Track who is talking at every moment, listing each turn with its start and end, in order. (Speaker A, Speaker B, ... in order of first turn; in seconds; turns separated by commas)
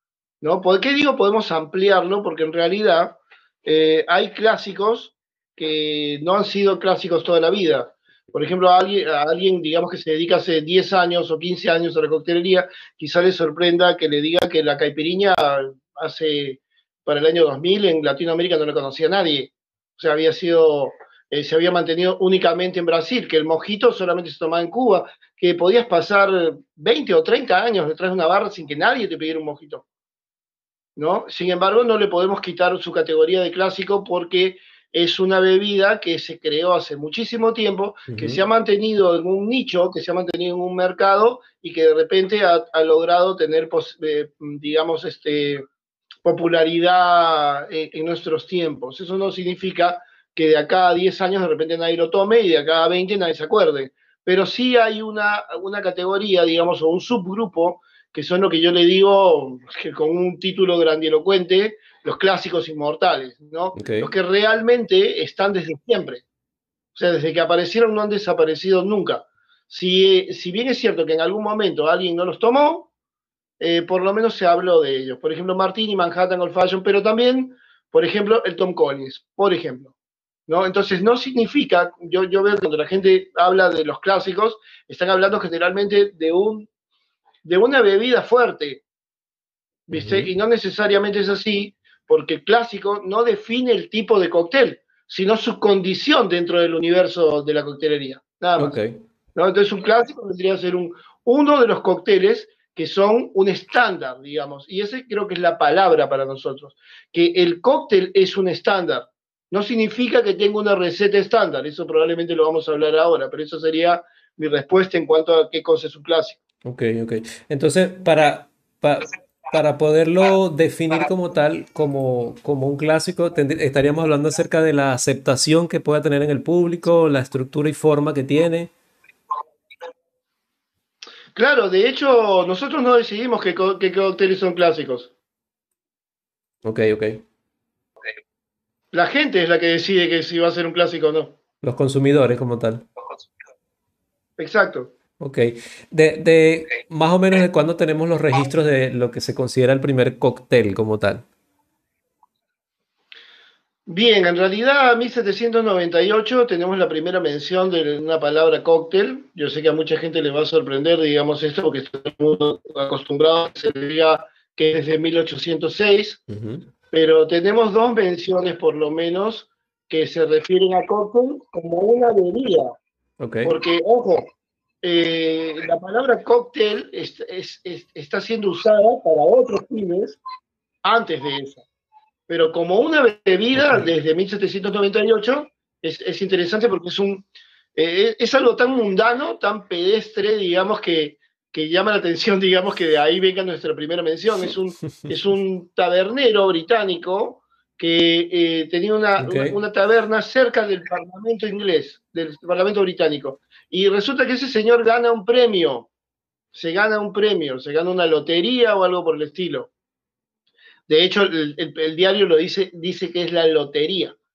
Speaker A: 0.4-29.8, Speaker A: 30.9-45.6, Speaker B: 38.1-38.4, Speaker A: 46.2-66.2, Speaker B: 63.8-64.1, Speaker A: 66.9-72.9, Speaker A: 73.6-79.9, Speaker A: 80.5-86.7, Speaker A: 87.4-88.8, Speaker A: 89.9-98.7, Speaker B: 89.9-90.3, Speaker B: 98.6-99.0, Speaker A: 99.3-116.4, Speaker B: 116.6-128.7, Speaker A: 131.3-135.1, Speaker B: 136.6-137.2, Speaker A: 138.9-141.3, Speaker B: 141.6-142.8, Speaker A: 144.4-144.9, Speaker B: 145.2-151.2, Speaker A: 153.9-166.2, Speaker B: 166.3-166.7, Speaker A: 166.9-172.8, Speaker B: 173.2-173.6, Speaker A: 173.4-174.3, Speaker A: 174.8-180.2, Speaker A: 180.8-181.6, Speaker A: 182.3-205.9, Speaker B: 199.2-199.6, Speaker A: 206.5-209.7, Speaker A: 210.9-214.2